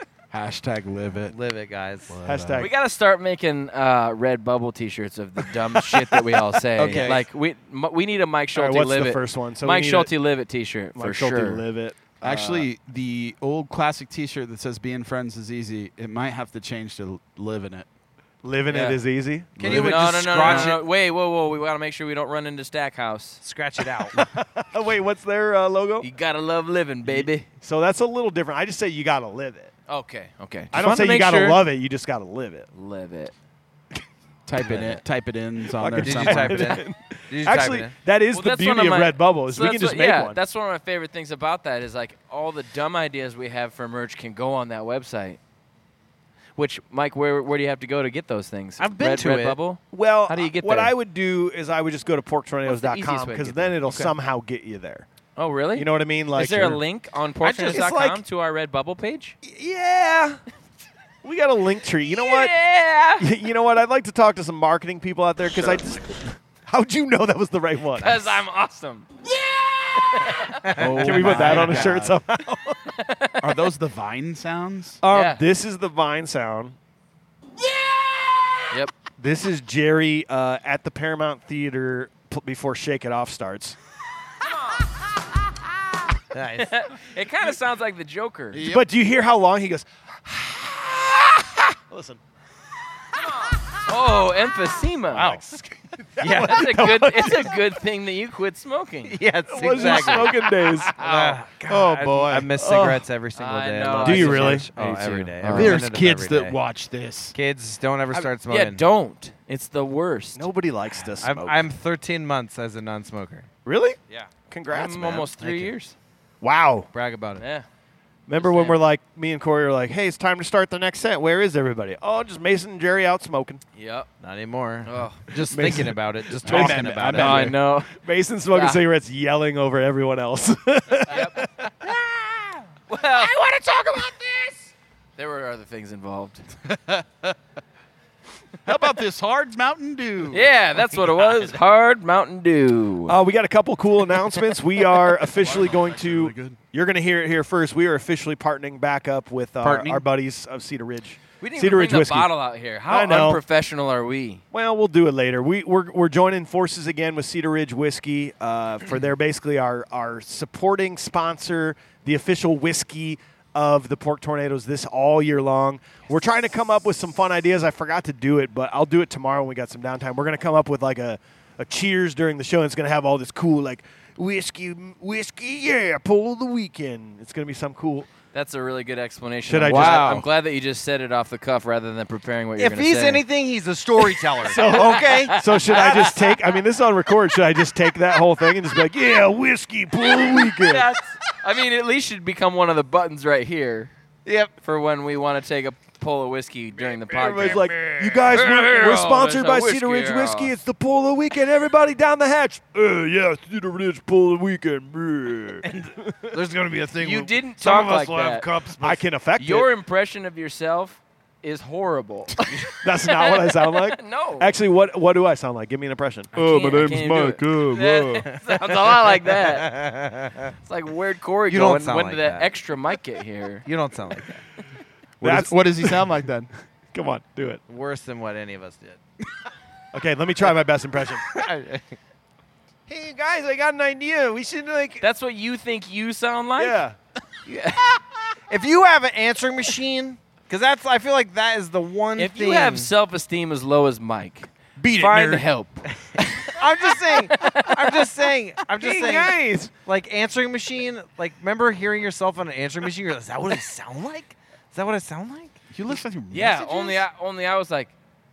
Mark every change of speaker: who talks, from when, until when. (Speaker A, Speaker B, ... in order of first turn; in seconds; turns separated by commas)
Speaker A: 0.3-1.4, Speaker B: 1.3-2.1, Speaker A: 2.1-2.7, Speaker C: 2.2-2.7, Speaker D: 2.6-11.7, Speaker A: 6.8-7.2, Speaker B: 6.8-7.2, Speaker C: 8.6-10.1, Speaker C: 10.9-12.0, Speaker D: 12.2-12.7, Speaker A: 12.2-17.9, Speaker C: 18.4-20.8, Speaker D: 18.7-19.0, Speaker B: 19.6-20.9, Speaker D: 19.6-23.4, Speaker B: 23.4-24.2, Speaker C: 24.1-26.1, Speaker D: 26.0-27.5, Speaker C: 27.1-29.7, Speaker D: 29.9-31.6, Speaker C: 30.7-32.7, Speaker D: 32.7-33.3, Speaker A: 34.5-36.8, Speaker D: 34.6-35.0, Speaker C: 35.7-40.4, Speaker B: 36.0-37.9, Speaker D: 38.3-45.4, Speaker D: 46.6-50.9, Speaker B: 48.8-49.6, Speaker C: 49.9-55.1, Speaker D: 52.6-54.1, Speaker D: 55.4-59.4, Speaker C: 55.7-56.8, Speaker C: 57.4-58.2, Speaker C: 59.4-60.4, Speaker C: 61.2-62.5, Speaker D: 62.1-63.3, Speaker C: 63.2-68.4, Speaker D: 68.0-69.1, Speaker D: 70.0-72.0, Speaker B: 70.6-71.4, Speaker A: 70.8-72.2, Speaker C: 70.9-72.9, Speaker D: 73.0-73.4, Speaker A: 73.4-75.0, Speaker C: 75.0-76.8, Speaker D: 75.1-75.4, Speaker C: 79.2-83.8, Speaker B: 86.3-86.8, Speaker D: 86.6-88.6, Speaker A: 88.5-88.8, Speaker C: 88.6-92.2, Speaker D: 93.3-95.4, Speaker B: 95.1-96.7, Speaker C: 95.9-97.6, Speaker D: 96.2-99.2, Speaker B: 99.1-100.3, Speaker C: 99.5-101.0, Speaker D: 99.8-101.4, Speaker B: 101.0-106.6, Speaker A: 101.7-102.5, Speaker C: 102.6-103.0, Speaker D: 103.4-105.8, Speaker C: 104.0-104.7, Speaker A: 105.5-107.3, Speaker B: 107.3-108.8, Speaker D: 108.2-110.5, Speaker C: 110.3-111.7, Speaker B: 111.2-113.5, Speaker C: 113.7-115.7, Speaker D: 114.7-116.0, Speaker C: 116.4-116.9, Speaker B: 116.9-117.4, Speaker D: 117.4-117.7, Speaker C: 118.3-123.6, Speaker D: 118.4-118.8, Speaker D: 123.8-124.1, Speaker B: 124.2-127.5, Speaker D: 124.8-125.2, Speaker C: 125.5-131.9, Speaker A: 126.4-127.6, Speaker D: 127.2-128.0, Speaker D: 128.5-128.8, Speaker D: 131.1-131.4, Speaker D: 132.9-133.4, Speaker B: 133.4-133.8, Speaker D: 135.2-136.5, Speaker A: 136.7-137.3, Speaker A: 138.7-140.5, Speaker D: 140.3-143.2, Speaker C: 143.1-152.3, Speaker A: 145.4-146.6, Speaker A: 149.6-150.0, Speaker D: 151.4-154.4, Speaker C: 152.9-153.4, Speaker C: 154.5-178.1, Speaker D: 178.3-183.2, Speaker C: 179.5-180.3, Speaker A: 179.7-180.2, Speaker B: 182.6-186.2, Speaker C: 184.4-190.9, Speaker D: 184.5-186.4, Speaker D: 190.1-193.9, Speaker B: 194.3-194.5, Speaker D: 194.6-200.5, Speaker B: 196.8-198.3, Speaker C: 197.1-206.4, Speaker B: 205.6-209.0, Speaker D: 207.0-208.5, Speaker C: 208.8-209.7, Speaker D: 209.4-214.6, Speaker C: 212.8-218.3, Speaker D: 216.3-219.8, Speaker B: 218.3-220.5, Speaker D: 220.6-223.7, Speaker B: 221.5-222.5, Speaker B: 223.7-224.3, Speaker A: 225.2-226.5, Speaker C: 225.2-226.1, Speaker C: 226.9-227.6, Speaker B: 227.7-229.0, Speaker C: 229.9-231.2, Speaker B: 231.2-232.0, Speaker C: 232.9-235.0, Speaker D: 235.0-236.8, Speaker C: 236.6-237.0, Speaker D: 237.5-237.9, Speaker B: 238.5-242.9, Speaker D: 242.2-246.6, Speaker A: 244.8-245.5, Speaker B: 245.9-255.6, Speaker D: 247.1-247.7, Speaker C: 248.8-249.7, Speaker A: 255.7-257.0, Speaker D: 256.3-257.9